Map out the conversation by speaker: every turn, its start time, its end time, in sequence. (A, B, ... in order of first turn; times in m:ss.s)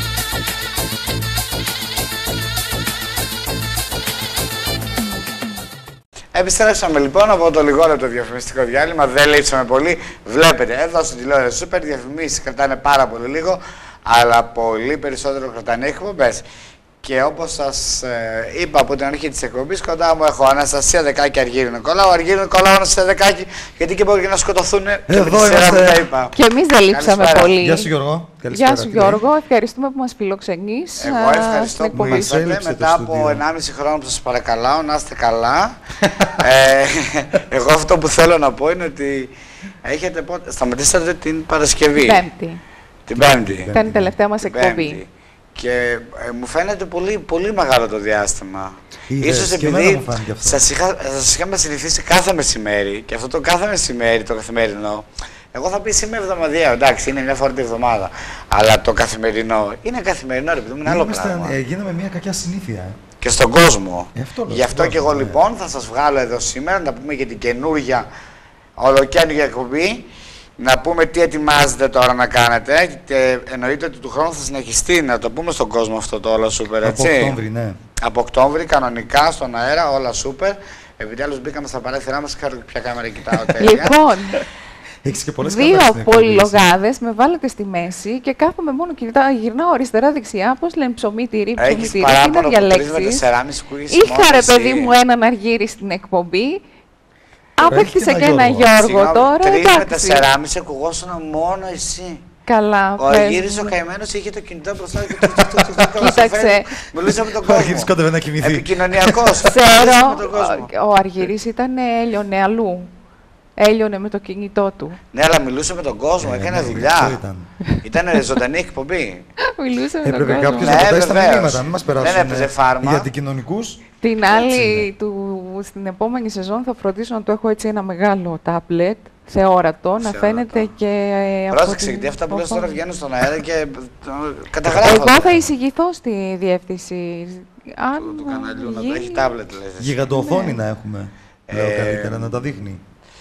0:06.3-0:16.4 A
0:17.0-0:26.3 A
0:25.1-0:26.0 B
0:26.3-0:27.9 C
0:26.9-0:27.6 A
0:27.6-0:29.2 B
0:28.5-0:32.3 C
0:31.0-0:35.8 A
0:31.9-0:33.4 B
0:36.0-0:36.4 B
0:36.3-0:39.3 A
0:39.8-0:42.2 A
0:42.0-0:42.6 C
0:43.1-0:43.7 A
0:43.1-0:44.1 B
0:43.7-0:45.0 C
0:44.4-1:01.6 A
0:49.1-0:50.6 B
1:00.8-1:03.0 B
1:03.2-1:08.1 A
1:04.1-1:05.4 B
1:08.8-1:10.1 A
1:10.6-1:17.4 A
1:16.8-1:17.8 B
1:18.0-1:24.0 A
1:23.6-1:24.4 C
1:25.0-1:26.7 B
1:25.4-1:33.2 C
1:31.6-1:34.9 A
1:33.9-1:36.6 C
1:37.6-1:40.3 C
1:37.6-1:38.7 B
1:38.6-1:42.2 A
1:42.4-1:43.7 C
1:43.0-1:50.7 A
1:45.1-1:45.9 B
1:46.0-1:46.7 C
1:47.0-1:49.5 B
1:49.4-1:52.9 C
1:53.6-1:55.0 C
1:55.1-1:57.2 A
1:56.2-1:57.5 B
1:57.8-1:59.3 A
1:59.4-2:01.0 C
2:00.0-2:04.9 B
2:00.5-2:03.1 A
2:04.0-2:12.8 C
2:10.0-2:10.7 A
2:11.5-2:15.4 A
2:14.6-2:15.4 B
2:14.7-2:19.3 C
2:18.0-2:20.0 A
2:19.8-2:22.8 B
2:20.1-2:20.6 C
2:21.5-2:22.4 A